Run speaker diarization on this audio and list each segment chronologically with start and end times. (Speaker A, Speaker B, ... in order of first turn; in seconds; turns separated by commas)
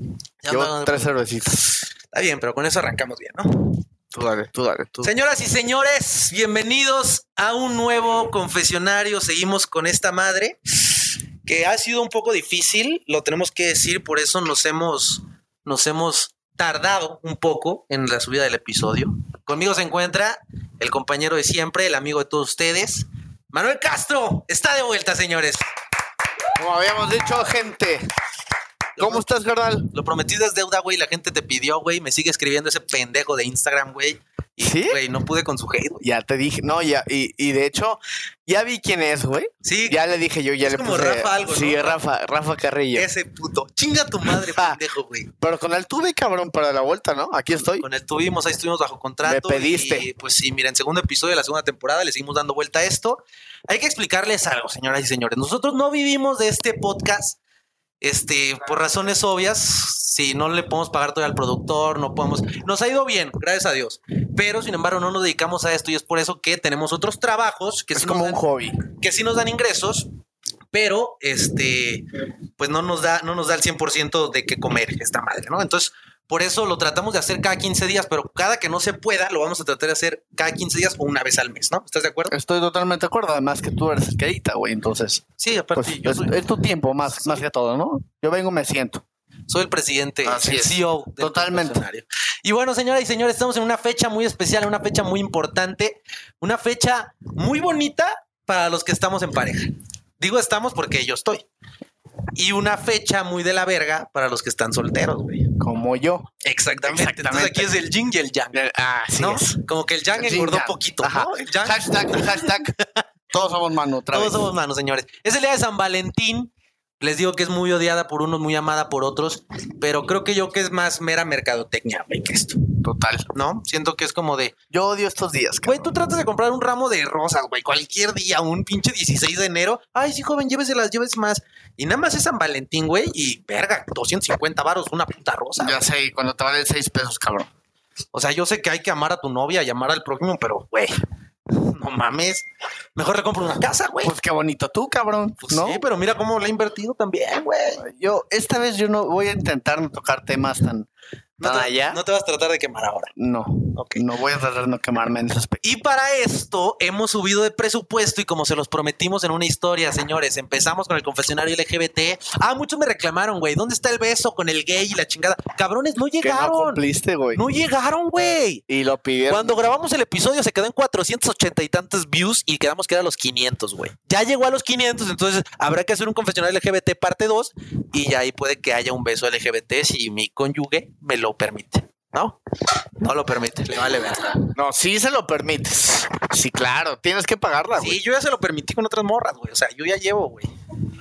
Speaker A: 0.4-1.1, Speaker B: 0.5-1.7, Speaker A: 2.1-3.8, Speaker B: 4.1-5.1, Speaker A: 5.0-25.6, Speaker B: 26.6-28.0, Speaker A: 29.0-29.2, Speaker B: 29.0-29.9, Speaker A: 29.9-36.0, Speaker B: 34.6-35.0, Speaker B: 36.0-43.1, Speaker A: 39.6-40.0, Speaker A: 40.6-42.0, Speaker A: 43.0-45.3, Speaker B: 44.2-44.8, Speaker B: 45.4-47.9, Speaker A: 47.8-57.4, Speaker B: 49.2-50.0, Speaker A: 58.0-70.1, Speaker B: 67.9-68.8, Speaker A: 70.7-72.0, Speaker A: 72.6-82.3, Speaker B: 82.3-85.2, Speaker A: 85.4-86.5, Speaker B: 85.7-89.0, Speaker A: 87.0-87.4, Speaker A: 89.5-101.4, Speaker B: 90.2-91.8, Speaker A: 102.3-105.5, Speaker B: 105.6-106.3, Speaker A: 106.4-108.6, Speaker B: 106.8-107.7, Speaker B: 108.5-109.6, Speaker A: 109.2-113.0, Speaker B: 110.1-112.7, Speaker B: 113.3-114.5, Speaker A: 114.1-122.6, Speaker B: 122.8-123.3, Speaker A: 123.3-124.5, Speaker B: 124.7-126.0, Speaker A: 125.6-135.8, Speaker B: 135.6-137.5, Speaker A: 138.1-141.0, Speaker A: 141.5-142.4, Speaker A: 142.9-144.1, Speaker B: 144.0-145.8, Speaker A: 145.4-147.8, Speaker B: 147.8-150.9, Speaker A: 151.4-153.1, Speaker B: 151.4-152.0, Speaker B: 153.2-155.6, Speaker A: 153.7-154.0, Speaker A: 155.6-166.8, Speaker B: 166.2-167.4, Speaker A: 167.3-168.6, Speaker B: 168.2-169.6, Speaker A: 169.3-182.4, Speaker A: 183.0-184.5, Speaker B: 184.5-188.0, Speaker A: 187.8-190.5